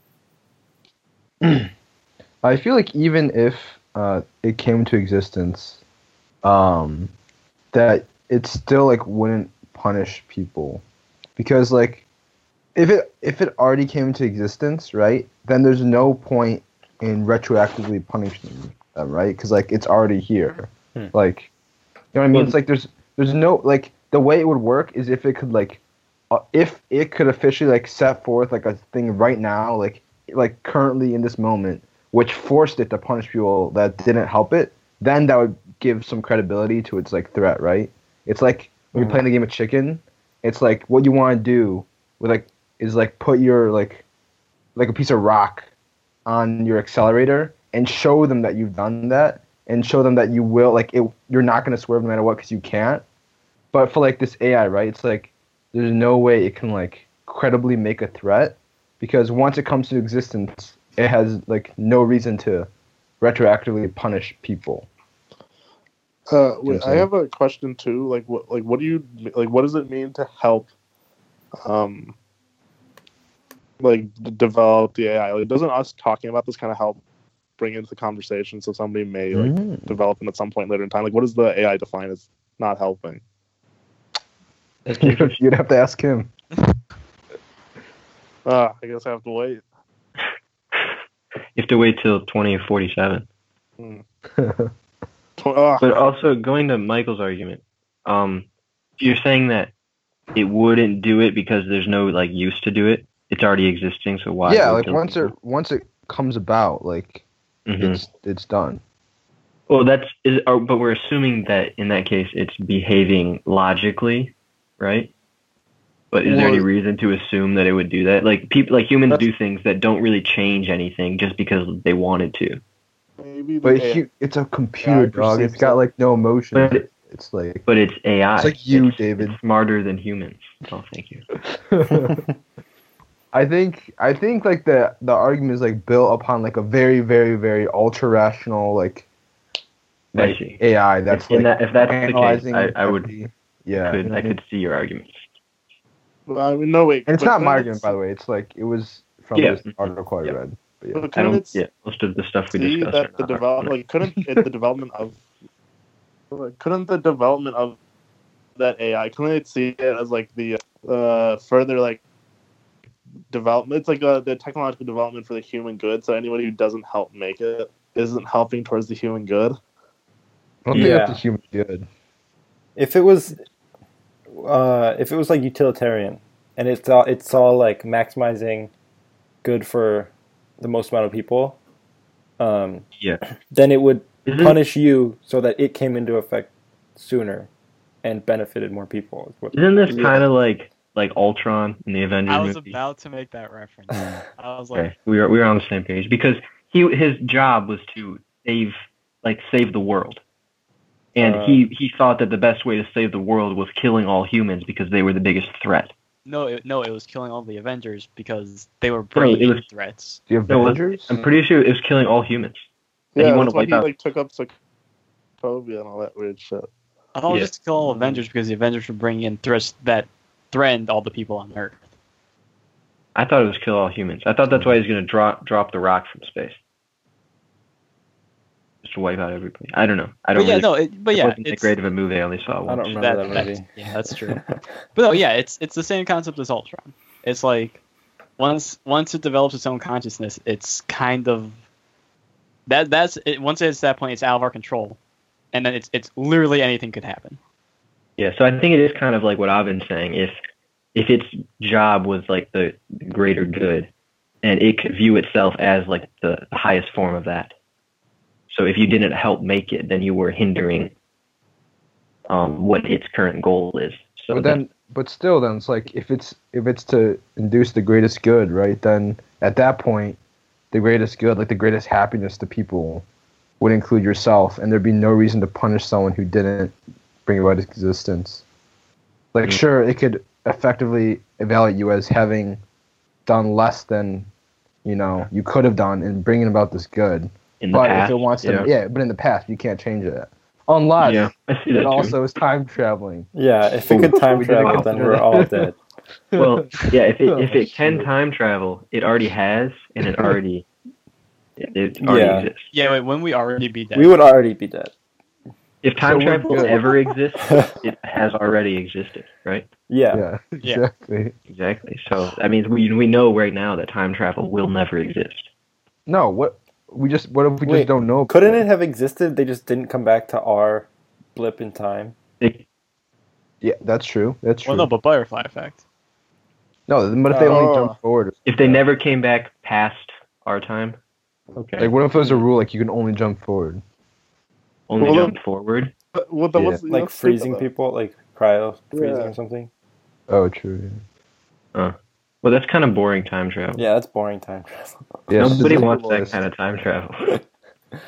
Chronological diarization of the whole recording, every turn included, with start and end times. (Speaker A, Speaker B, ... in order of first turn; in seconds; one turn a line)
Speaker A: 1.4-1.7
Speaker A: 2.4-5.8
Speaker A: 6.4-7.1
Speaker A: 7.7-10.8
Speaker A: 11.4-12.1
Speaker A: 12.8-21.5
Speaker A: 22.1-44.0
Speaker B: 39.0-39.2
Speaker A: 44.8-45.7
Speaker A: 46.3-53.0
Speaker A: 53.7-62.7
Speaker A: 63.2-64.9
Speaker C: 66.3-70.7
Speaker A: 66.7-67.1
Speaker C: 71.6-72.1
Speaker C: 73.8-77.0
Speaker C: 77.6-83.2
Speaker A: 79.3-80.0
Speaker D: 84.8-85.4
Speaker A: 85.0-86.3
Speaker C: 88.5-89.6
Speaker D: 91.5-93.3
Speaker A: 94.4-94.7
Speaker C: 95.4-96.0
Speaker D: 95.8-98.5
Speaker D: 99.0-99.7
Speaker D: 100.3-105.3
Speaker A: 104.5-107.2
Speaker D: 107.7-108.0
Speaker A: 107.8-108.8
Speaker D: 109.7-115.1
Speaker D: 116.1-122.6
Speaker A: 116.2-116.7
Speaker C: 123.2-124.0
Speaker A: 123.6-127.7
Speaker C: 124.8-125.8
Speaker D: 126.5-126.9
Speaker D: 127.7-131.3
Speaker A: 128.4-129.4
Speaker A: 131.5-132.2
Speaker B: 131.9-132.2
Speaker A: 133.3-139.1
Speaker A: 140.1-144.4
Speaker D: 140.2-143.1
Speaker D: 143.7-145.3
Speaker C: 146.3-147.9
Speaker A: 147.1-151.1
Speaker D: 149.3-150.4
Speaker C: 150.9-151.6
Speaker D: 151.2-153.8
Speaker C: 152.6-155.2
Speaker C: 156.3-157.8
Speaker C: 158.6-162.0
Speaker C: 163.3-169.6
Speaker A: 170.7-171.9
Speaker B: 170.7-171.2
Speaker B: 172.8-173.4
Speaker B: 174.3-178.7
Speaker B: 179.4-181.6
Speaker B: 182.4-182.9
Speaker B: 183.5-187.5
Speaker D: 184.2-184.6
Speaker B: 188.0-190.2
Speaker D: 189.5-192.8
Speaker E: 192.3-194.9
Speaker B: 193.9-194.2
Speaker D: 194.7-200.2
Speaker D: 201.2-205.9
Speaker B: 201.2-201.6
Speaker E: 206.3-210.2
Speaker D: 209.2-209.7
Speaker A: 210.3-211.1
Speaker D: 210.5-213.9
Speaker C: 213.2-214.6
Speaker C: 215.4-216.7
Speaker E: 217.1-221.8
Speaker D: 217.3-218.2
Speaker D: 223.2-226.6
Speaker D: 228.8-233.5
Speaker E: 230.3-231.7
Speaker B: 232.7-234.6
Speaker E: 233.0-237.8
Speaker E: 238.4-241.6
Speaker E: 242.7-245.0
Speaker E: 245.5-247.4
Speaker D: 248.2-250.4
Speaker D: 250.9-253.9
Speaker D: 254.4-257.5
Speaker D: 258.5-260.9
Speaker D: 262.3-264.6
Speaker A: 264.3-270.2
Speaker A: 270.7-273.1
Speaker A: 273.6-276.8
Speaker A: 277.3-278.4
Speaker A: 279.3-282.6
Speaker A: 283.3-284.3
Speaker A: 284.9-293.3
Speaker D: 287.6-288.7
Speaker D: 291.0-292.2
Speaker B: 293.3-295.8
Speaker D: 293.9-294.9
Speaker A: 293.9-295.7
Speaker A: 296.3-298.1
Speaker D: 296.4-300.7
Speaker D: 301.6-302.7
Speaker B: 302.0-302.5
Speaker E: 302.7-304.1
Speaker B: 303.9-304.9
Speaker D: 305.8-309.7
Speaker A: 306.0-306.8
Speaker B: 309.9-310.2
Speaker A: 310.1-311.3
Speaker D: 311.5-315.5
Speaker A: 316.1-318.6
Speaker B: 317.6-322.1
Speaker A: 323.6-324.9
Speaker E: 324.6-325.8
Speaker A: 326.9-328.8
Speaker B: 327.3-327.7
Speaker C: 327.4-328.0
Speaker D: 328.5-331.0
Speaker D: 331.6-331.9
Speaker A: 331.8-333.8
Speaker D: 334.9-335.9
Speaker C: 335.0-335.4
Speaker C: 336.1-337.7
Speaker A: 336.6-336.8
Speaker B: 336.9-339.7
Speaker C: 338.9-339.3
Speaker A: 340.3-341.0
Speaker D: 341.7-343.8
Speaker B: 343.8-345.2
Speaker A: 345.3-346.4
Speaker D: 345.4-347.4
Speaker C: 345.5-346.3